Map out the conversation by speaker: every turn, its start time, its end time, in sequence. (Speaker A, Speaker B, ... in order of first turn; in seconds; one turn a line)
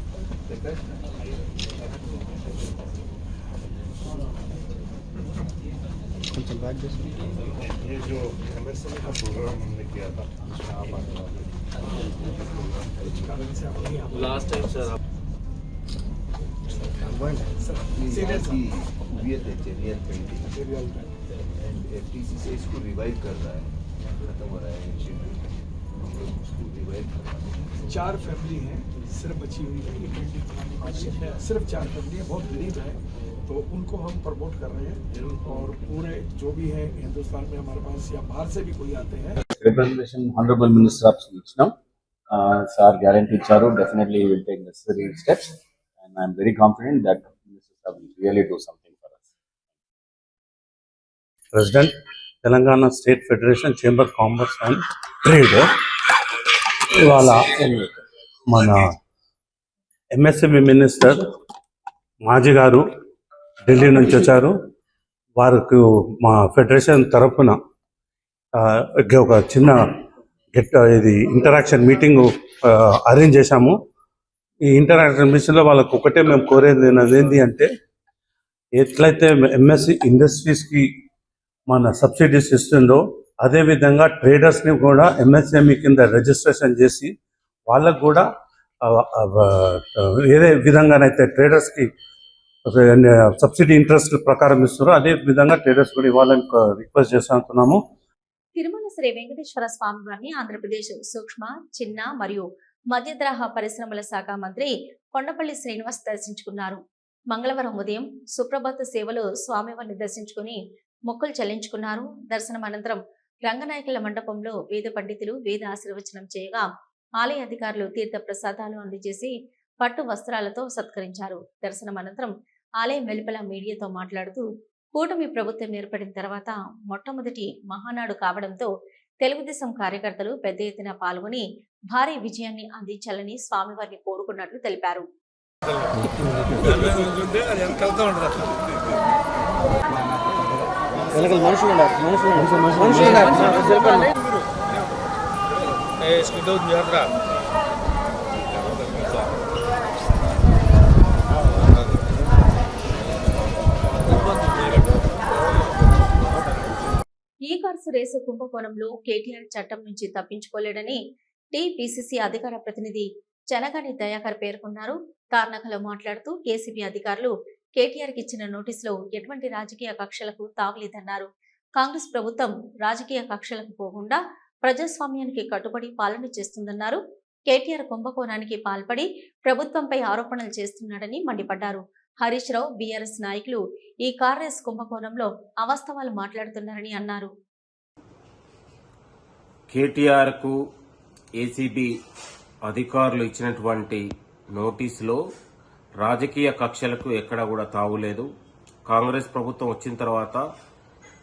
Speaker A: 0.5-0.9
Speaker B: 8.6-9.4
Speaker A: 10.4-11.4
Speaker A: 13.0-13.3
Speaker B: 13.2-14.9
Speaker B: 16.7-18.6
Speaker A: 17.9-20.5
Speaker B: 20.5-21.0
Speaker A: 21.5-27.8
Speaker B: 27.9-39.4
Speaker C: 39.5-41.7
Speaker C: 42.3-49.3
Speaker D: 51.5-56.1
Speaker D: 56.9-57.9
Speaker D: 58.5-59.0
Speaker D: 60.1-61.3
Speaker D: 62.2-62.9
Speaker D: 63.6-64.6
Speaker D: 65.3-67.6
Speaker D: 68.5-69.9
Speaker D: 70.5-73.8
Speaker D: 74.6-77.7
Speaker D: 78.7-80.9
Speaker D: 81.7-87.1
Speaker D: 87.7-88.3
Speaker D: 88.8-91.9
Speaker D: 92.7-97.8
Speaker E: 98.6-116.7
Speaker E: 117.2-135.1
Speaker E: 157.4-161.0
Speaker E: 161.5-187.3
Speaker F: 189.7-190.6
Speaker F: 191.4-191.9
Speaker F: 192.6-195.2
Speaker F: 196.0-198.3
Speaker F: 198.9-200.4